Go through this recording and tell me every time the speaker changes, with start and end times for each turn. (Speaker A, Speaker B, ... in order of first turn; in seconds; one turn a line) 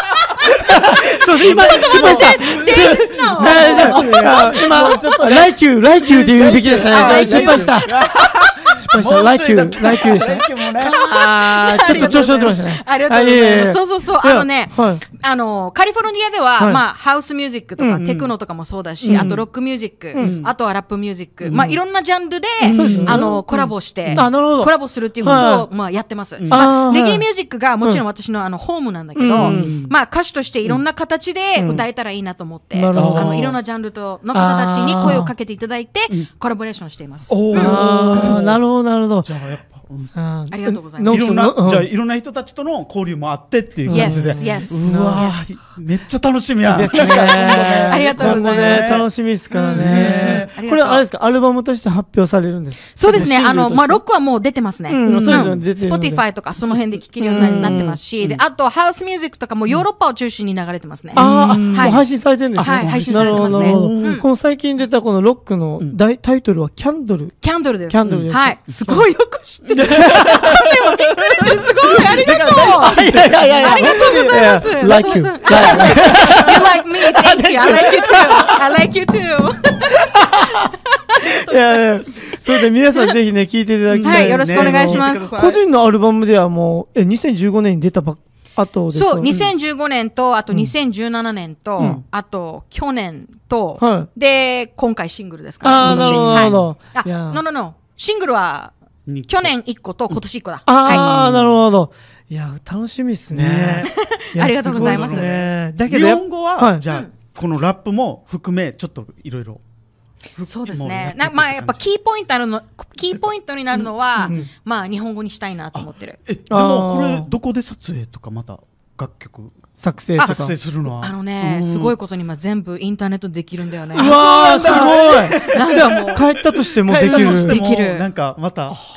Speaker A: 0.5-7.9
Speaker B: 0.9-11.0
Speaker C: 1.4-5.2
Speaker C: 6.9-8.8
Speaker A: 8.8-15.0
Speaker C: 10.6-38.4
Speaker B: 11.8-12.6
Speaker A: 17.8-18.0
Speaker B: 18.0-18.3
Speaker B: 19.1-19.4
Speaker A: 19.1-19.4
Speaker B: 20.1-20.5
Speaker B: 21.4-21.8
Speaker B: 22.6-24.3
Speaker A: 22.7-23.5
Speaker A: 24.1-25.7
Speaker B: 25.2-25.5
Speaker B: 26.4-26.7
Speaker A: 26.5-27.2
Speaker A: 29.2-29.7
Speaker B: 29.4-29.9
Speaker A: 31.6-31.8
Speaker A: 32.7-33.6
Speaker B: 32.9-33.5
Speaker A: 34.3-35.3
Speaker B: 37.3-38.6
Speaker A: 37.5-39.3
Speaker B: 39.2-40.1
Speaker A: 40.1-41.9
Speaker C: 40.5-41.2
Speaker B: 41.1-49.1
Speaker A: 43.9-45.4
Speaker C: 43.9-45.5
Speaker A: 46.7-54.0
Speaker C: 47.1-51.0
Speaker B: 49.7-50.5
Speaker C: 53.0-62.0
Speaker A: 54.9-56.2
Speaker B: 55.1-55.6
Speaker A: 57.2-58.0
Speaker B: 57.2-58.4
Speaker B: 61.1-62.0
Speaker A: 61.1-69.0
Speaker C: 62.5-64.2
Speaker B: 62.6-64.2
Speaker C: 67.4-73.0
Speaker B: 68.0-68.8
Speaker B: 69.7-74.5
Speaker A: 70.0-70.5
Speaker A: 72.3-78.6
Speaker C: 73.6-81.5
Speaker B: 75.5-76.4
Speaker A: 81.2-89.3
Speaker B: 83.9-85.6
Speaker C: 84.0-85.3
Speaker C: 88.9-98.7
Speaker B: 89.3-89.5
Speaker A: 93.8-94.1
Speaker A: 95.6-97.4
Speaker B: 95.7-96.7
Speaker B: 99.1-99.5
Speaker C: 99.3-101.1
Speaker A: 100.7-106.8
Speaker B: 100.9-101.6
Speaker B: 103.3-103.9
Speaker C: 103.9-105.3
Speaker B: 104.7-109.6
Speaker B: 110.4-111.8
Speaker C: 110.4-116.2
Speaker B: 114.2-114.5
Speaker B: 115.8-119.5
Speaker A: 116.5-117.3
Speaker A: 119.8-120.5
Speaker B: 120.2-121.9
Speaker C: 121.0-126.3
Speaker B: 123.9-128.8
Speaker A: 124.0-127.6
Speaker C: 127.0-128.1